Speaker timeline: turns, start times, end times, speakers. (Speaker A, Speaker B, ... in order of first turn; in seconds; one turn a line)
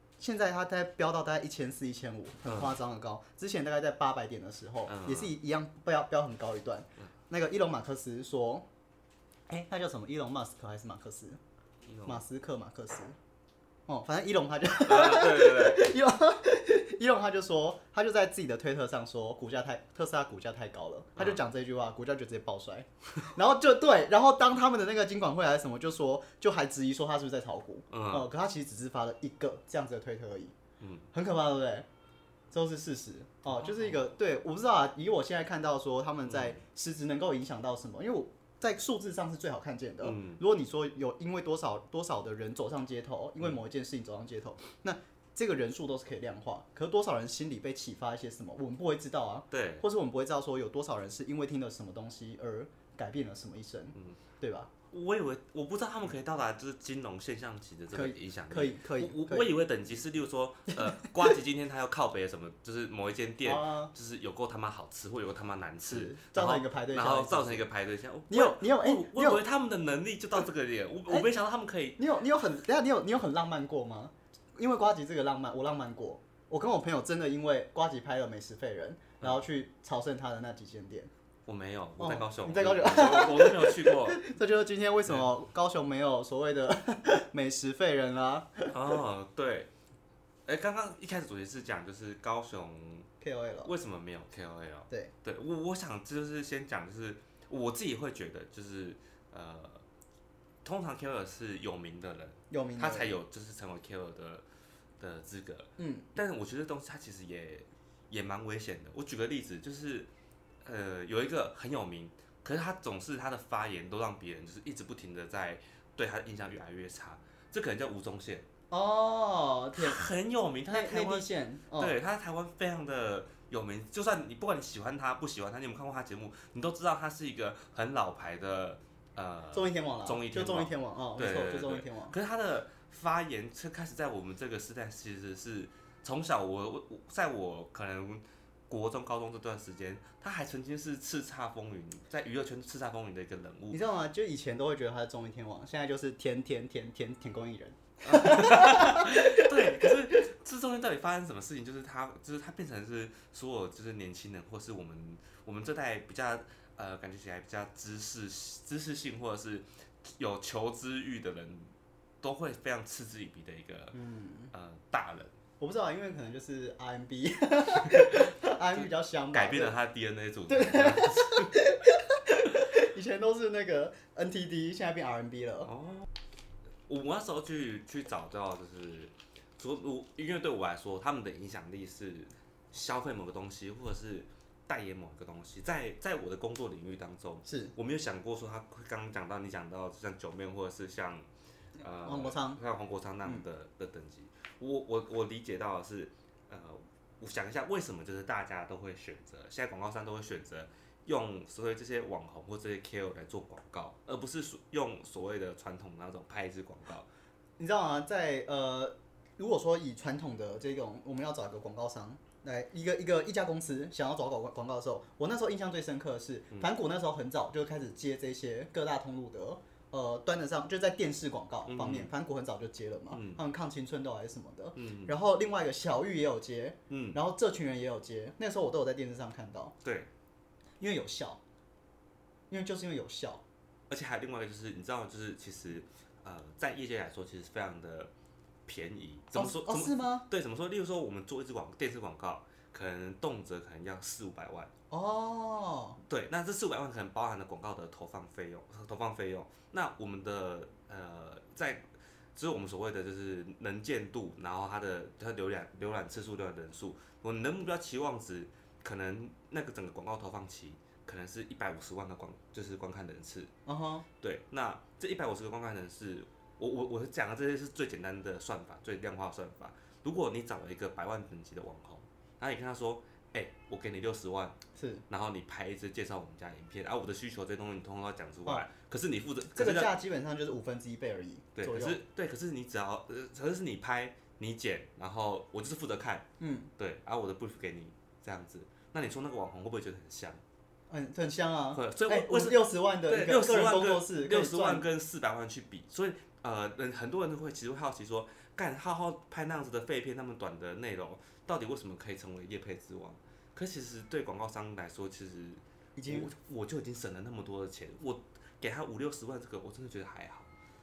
Speaker A: 0.2-8.6
Speaker B: 2.4-2.8
Speaker B: 4.9-5.3
Speaker A: 9.5-11.4
Speaker B: 11.8-12.2
Speaker A: 12.0-13.1
Speaker A: 13.9-30.5
Speaker B: 14.8-15.9
Speaker B: 27.9-28.3
Speaker B: 30.8-31.1
Speaker A: 31.1-31.9
Speaker A: 32.5-54.7
Speaker B: 33.5-34.0
Speaker B: 36.2-36.6
Speaker B: 40.0-40.4
Speaker B: 49.5-49.8
Speaker B: 54.9-72.0
Speaker A: 57.9-59.5
Speaker A: 60.8-61.1
Speaker A: 63.4-63.9
Speaker A: 65.9-67.6
Speaker A: 68.3-69.4
Speaker A: 72.0-81.1
Speaker B: 81.5-84.2
Speaker A: 82.0-88.8
Speaker B: 88.7-89.7
Speaker B: 90.5-93.1
Speaker A: 93.2-93.7
Speaker B: 93.6-99.8
Speaker B: 100.6-104.4
Speaker A: 102.5-103.2
Speaker B: 105.0-110.1
Speaker A: 105.8-106.1
Speaker B: 110.6-118.5
Speaker A: 118.7-120.0
Speaker B: 119.8-143.8
Speaker A: 120.7-122.0
Speaker A: 129.5-132.1
Speaker A: 143.7-150.2
Speaker B: 148.0-163.9
Speaker A: 163.9-164.5
Speaker B: 164.5-165.3
Speaker A: 165.6-169.8
Speaker B: 167.9-171.6
Speaker A: 170.5-175.7
Speaker B: 175.7-176.1
Speaker B: 176.9-191.3
Speaker A: 187.4-187.7
Speaker B: 191.8-207.1
Speaker A: 192.0-192.6
Speaker A: 207.6-229.7
Speaker B: 221.7-222.1
Speaker B: 223.1-223.4
Speaker B: 224.8-225.1
Speaker B: 226.9-227.2
Speaker B: 229.8-230.1
Speaker A: 230.8-231.4
Speaker A: 232.5-233.4
Speaker B: 233.9-238.1
Speaker B: 238.7-244.7
Speaker A: 239.3-240.3
Speaker A: 244.9-246.0
Speaker B: 246.1-263.5
Speaker A: 263.6-264.1
Speaker B: 264.2-279.9
Speaker A: 274.8-275.0
Speaker A: 279.5-282.0
Speaker B: 281.5-290.4
Speaker A: 286.4-286.7
Speaker A: 290.9-294.9
Speaker B: 291.7-310.5
Speaker A: 305.9-306.3